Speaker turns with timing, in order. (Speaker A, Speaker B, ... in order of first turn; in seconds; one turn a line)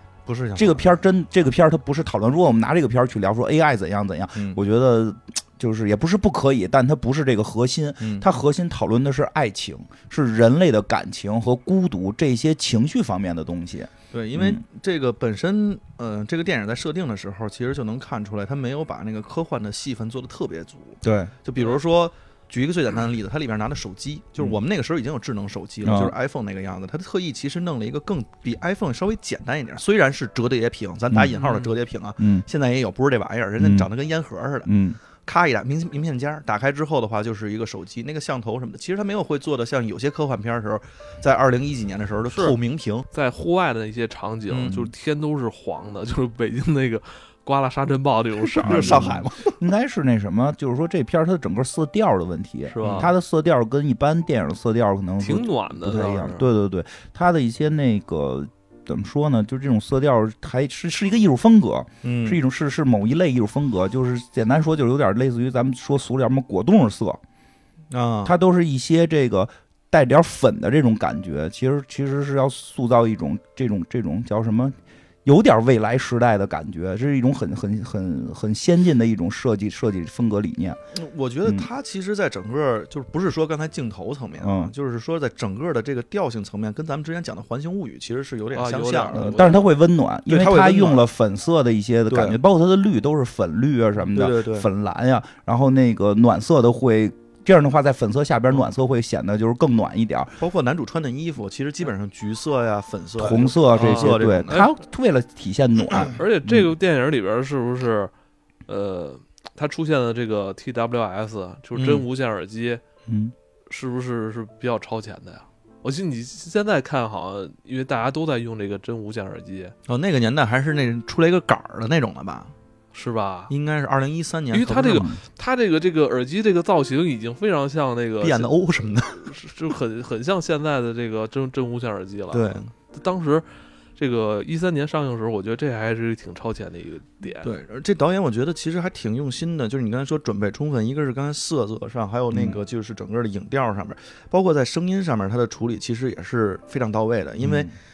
Speaker A: 0.2-0.8
Speaker B: 0.6-14.6
Speaker A: 8.0-8.3
Speaker A: 14.1-43.0
Speaker B: 21.0-21.3
Speaker B: 25.8-26.1
Speaker B: 31.1-31.4
Speaker C: 31.4-31.7
Speaker B: 32.2-32.5
Speaker B: 33.6-33.9
Speaker B: 34.6-35.0
Speaker C: 42.3-42.5
Speaker C: 43.1-49.2
Speaker A: 44.5-44.9
Speaker A: 48.5-49.5
Speaker B: 48.6-67.2
Speaker C: 52.7-53.1
Speaker A: 52.8-53.1
Speaker C: 55.2-56.5
Speaker A: 62.0-62.4
Speaker A: 67.9-68.3
Speaker B: 68.2-80.8
Speaker A: 80.9-89.4
Speaker B: 84.4-84.7
Speaker C: 88.5-89.7
Speaker B: 89.1-100.4
Speaker A: 90.3-91.0
Speaker A: 92.1-92.4
Speaker A: 94.1-94.7
Speaker A: 100.4-104.6
Speaker B: 103.2-106.7
Speaker C: 103.7-104.7
Speaker C: 106.1-108.1
Speaker C: 108.7-112.8
Speaker A: 111.7-112.0
Speaker B: 113.1-113.3
Speaker C: 113.7-119.7
Speaker A: 119.9-122.5
Speaker C: 122.9-123.5
Speaker A: 123.5-125.0
Speaker C: 124.5-128.5
Speaker B: 124.9-125.2
Speaker A: 128.2-129.3
Speaker C: 129.1-133.4
Speaker A: 132.3-132.7
Speaker C: 133.9-137.5
Speaker A: 137.4-147.7
Speaker B: 142.3-142.6
Speaker B: 147.4-147.7